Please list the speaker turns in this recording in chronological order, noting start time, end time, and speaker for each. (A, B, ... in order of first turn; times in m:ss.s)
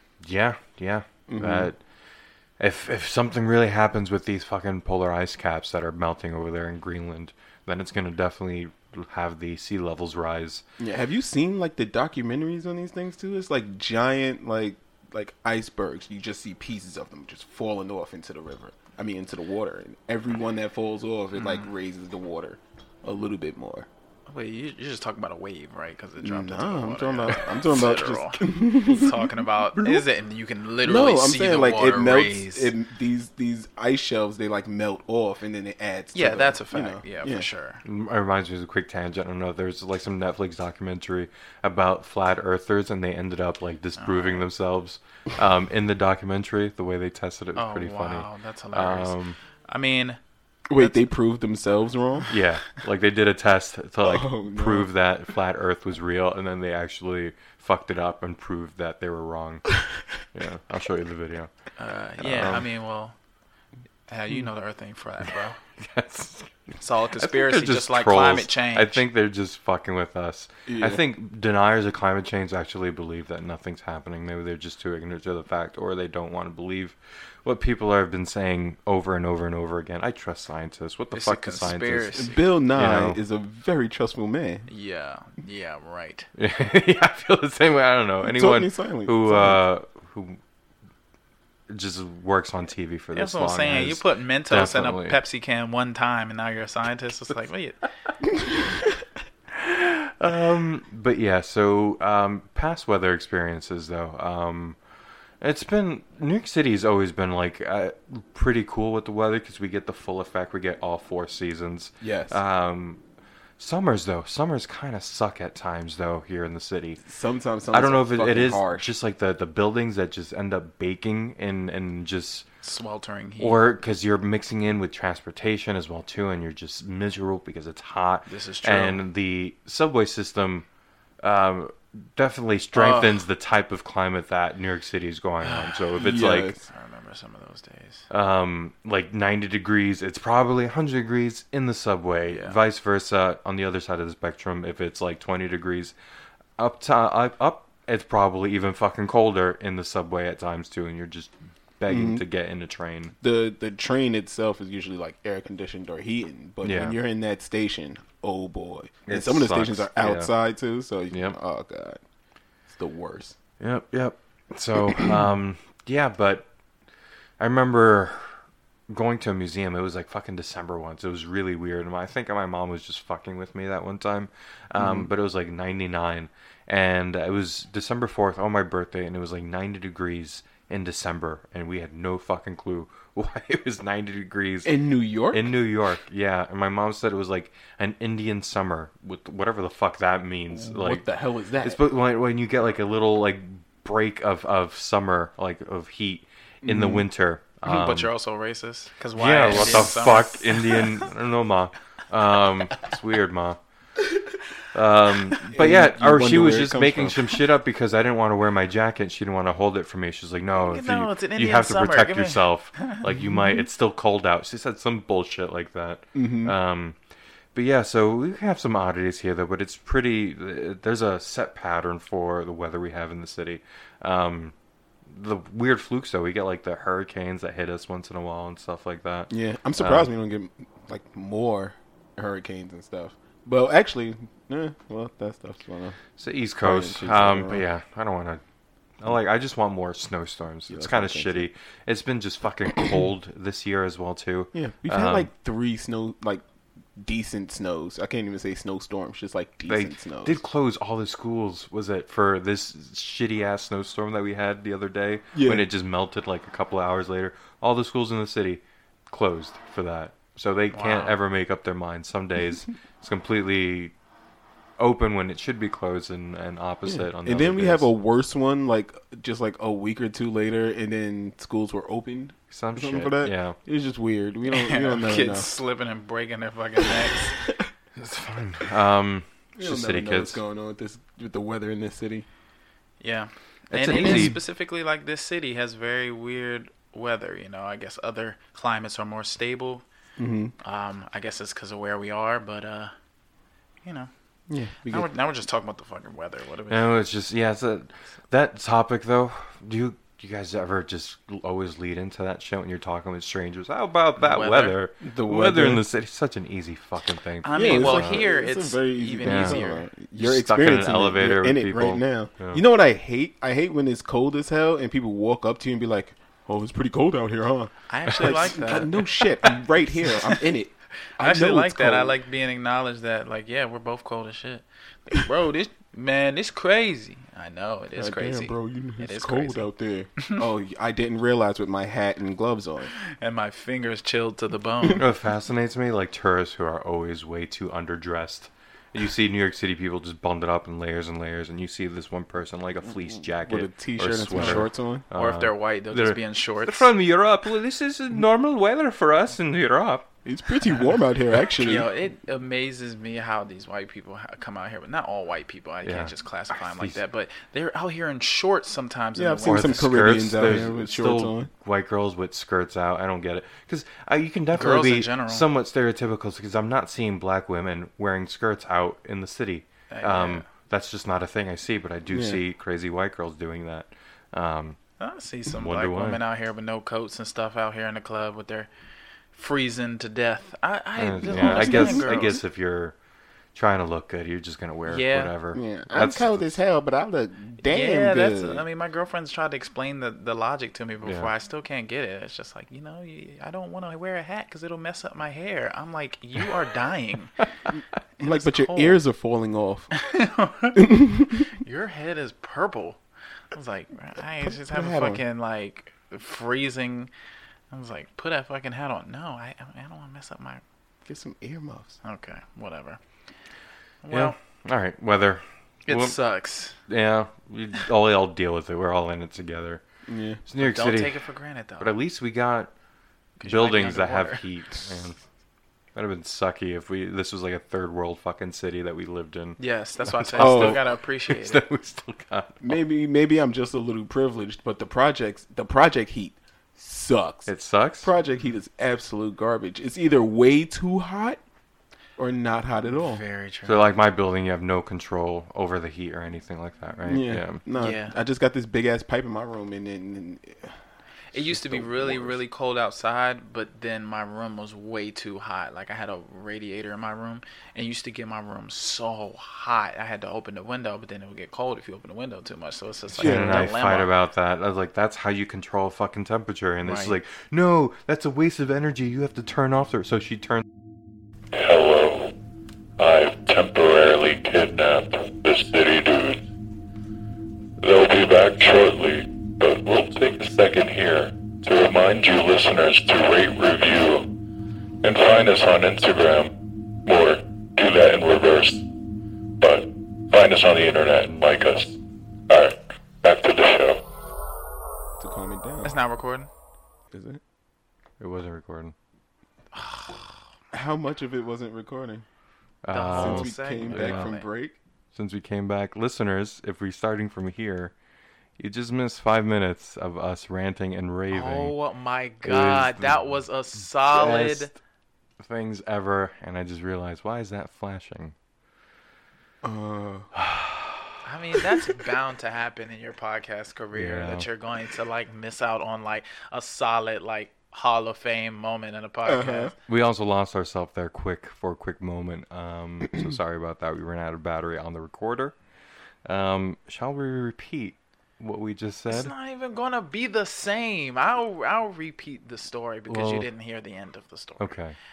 0:00.2-0:01.8 A
0:01.3-0:01.7 B
0:02.6-0:10.6 A
0:10.8-0:23.9 B
0:21.3-0:21.7 C
0:24.3-0:32.7 C
0:26.2-0:29.9 B
0:30.8-0:37.5 B
0:36.1-0:37.8 C
0:37.8-0:49.4 A
0:44.0-0:44.4 C
0:47.5-0:49.2 C
0:49.7-0:50.2 C
0:50.7-0:52.3 B
0:52.3-1:01.5 A
0:54.0-0:54.9 B
1:01.8-1:03.2 C
1:02.2-1:02.7 A
1:04.1-1:05.6 C
1:05.8-1:22.2 A
1:06.8-1:09.0 C
1:10.7-1:11.0 B
1:21.1-1:22.5 C
1:22.1-1:24.7 B
1:22.7-1:23.2 A
1:24.7-1:26.3 C
1:26.4-1:30.4 A
1:28.2-1:29.6 B
1:31.7-1:35.2 A
1:33.1-1:37.8 C
1:39.5-1:44.8 A
1:45.4-1:53.0 A
1:52.0-1:52.4 B
1:53.6-1:57.0 A
1:57.0-1:58.9 B
1:57.7-2:02.5 A
2:02.6-2:03.6 C
2:03.4-2:10.6 A
2:08.3-2:09.0 C
2:11.2-2:16.5 A
2:12.7-2:13.2 C
2:15.4-2:15.8 C
2:16.0-2:16.6 B
2:16.7-2:18.0 C
2:18.1-2:25.9 A
2:22.3-2:22.6 C
2:26.6-2:33.1 A
2:31.9-2:32.2 B
2:33.2-2:42.0 B
2:36.6-2:37.0 A
2:39.1-2:40.3 A
2:41.1-2:41.4 A
2:42.7-2:43.4 B
2:43.6-2:46.5 A
2:47.4-3:11.0 A
2:54.8-2:55.1 B
3:04.6-3:05.6 B
3:10.5-3:11.8 B
3:11.6-3:18.1 A
3:16.6-3:17.0 B
3:17.6-3:21.0 C
3:19.1-3:23.6 A
3:24.7-3:37.0 A
3:25.5-3:27.4 B
3:30.5-3:33.0 C
3:36.1-3:36.6 B
3:37.5-3:44.5 A
3:45.1-3:50.1 A
3:49.3-3:56.0 B
3:56.2-3:58.4 A
3:56.6-3:57.6 B
3:59.0-4:05.3 A
4:00.7-4:01.5 B
4:04.5-4:06.4 B
4:07.0-4:10.4 B
4:09.7-4:23.9 A
4:15.3-4:15.7 B
4:20.7-4:21.1 C
4:24.8-4:27.9 A
4:26.8-4:35.5 B
4:32.5-4:33.6 A
4:34.5-4:37.4 C
4:38.0-4:40.4 A
4:39.6-4:42.3 B
4:43.0-4:49.8 C
4:43.7-4:44.4 A
4:43.9-4:44.4 B
4:50.2-4:50.5 B
4:50.6-4:52.9 C
4:53.8-4:54.1 C
4:54.5-4:55.1 B
4:54.9-4:56.9 C
4:56.7-5:08.2 A
5:04.2-5:04.8 C
5:05.0-5:05.8 B
5:07.4-5:09.8 C
5:07.5-5:22.2 B
5:09.2-5:09.6 A
5:10.2-5:12.6 A
5:17.9-5:20.4 C
5:18.1-5:18.6 A
5:21.2-5:29.7 C
5:28.0-5:32.9 B
5:32.9-5:35.0 C
5:35.0-5:50.1 A
5:42.9-5:45.0 B
5:44.4-5:46.9 C
5:50.2-5:51.9 B
5:51.6-6:00.0 C
5:55.8-5:57.0 A
5:59.1-6:01.5 B
5:59.4-6:14.8 A
6:04.5-6:05.4 C
6:09.9-6:10.5 C
6:12.1-6:12.4 B
6:15.0-6:18.7 C
6:15.5-6:16.2 A
6:19.3-6:22.4 C
6:21.0-6:23.0 A
6:21.2-6:22.4 B
6:23.5-6:26.6 A
6:24.9-6:25.3 C
6:25.5-6:28.6 B
6:27.6-6:37.4 C
6:31.0-6:31.3 A
6:37.7-6:39.9 B
6:38.2-6:39.0 C
6:39.9-6:40.9 C
6:40.7-6:41.5 B
6:41.5-6:43.0 C
6:43.5-6:47.1 C
6:44.4-6:45.2 B
6:47.7-6:50.6 C
6:51.0-6:52.0 B
6:52.0-6:53.0 C
6:54.0-6:54.4 C
6:54.1-6:56.2 A
6:55.9-6:56.8 C
6:56.9-6:59.8 A
7:00.0-7:00.4 B
7:00.4-7:01.2 A
7:00.6-7:01.9 C
7:01.8-7:02.7 A
7:03.4-7:04.4 C
7:03.4-7:05.2 A
7:05.9-7:12.8 A
7:09.6-7:11.6 C
7:10.4-7:10.8 B
7:12.6-7:21.4 B
7:17.4-7:18.1 A
7:22.2-7:23.2 B
7:22.9-7:23.9 C
7:23.6-7:27.6 A
7:27.0-7:30.8 B
7:27.8-7:28.2 C
7:31.3-7:44.1 C
7:31.3-7:32.4 B
7:43.2-7:50.6 A
7:43.2-7:43.7 B
7:46.8-7:47.2 C
7:51.5-7:52.3 D
7:53.0-7:56.4 D
7:57.8-8:04.3 D
8:05.0-8:08.8 D
8:09.6-8:12.0 D
8:12.5-8:14.0 D
8:15.2-8:16.0 B
8:15.8-8:16.5 C
8:17.1-8:17.4 B
8:18.2-8:18.9 A
8:19.7-8:20.4 C
8:20.7-8:22.2 B
8:22.8-8:24.3 A
8:22.9-8:24.5 C
8:23.1-8:24.8 B
8:25.1-8:27.9 A
8:28.6-8:31.7 A
8:31.3-8:34.7 C
8:32.4-8:33.4 A
8:34.0-8:34.8 A
8:35.4-8:38.3 A
8:39.6-8:40.3 B
8:40.3-8:41.1 A
8:41.2-8:49.7 C
8:43.9-8:44.5 A
8:49.2-8:49.7 B
8:49.9-8:55.6 A
8:56.2-8:59.3 A
8:59.1-9:04.7 C
9:03.1-9:03.5 A
9:04.6-9:05.0 A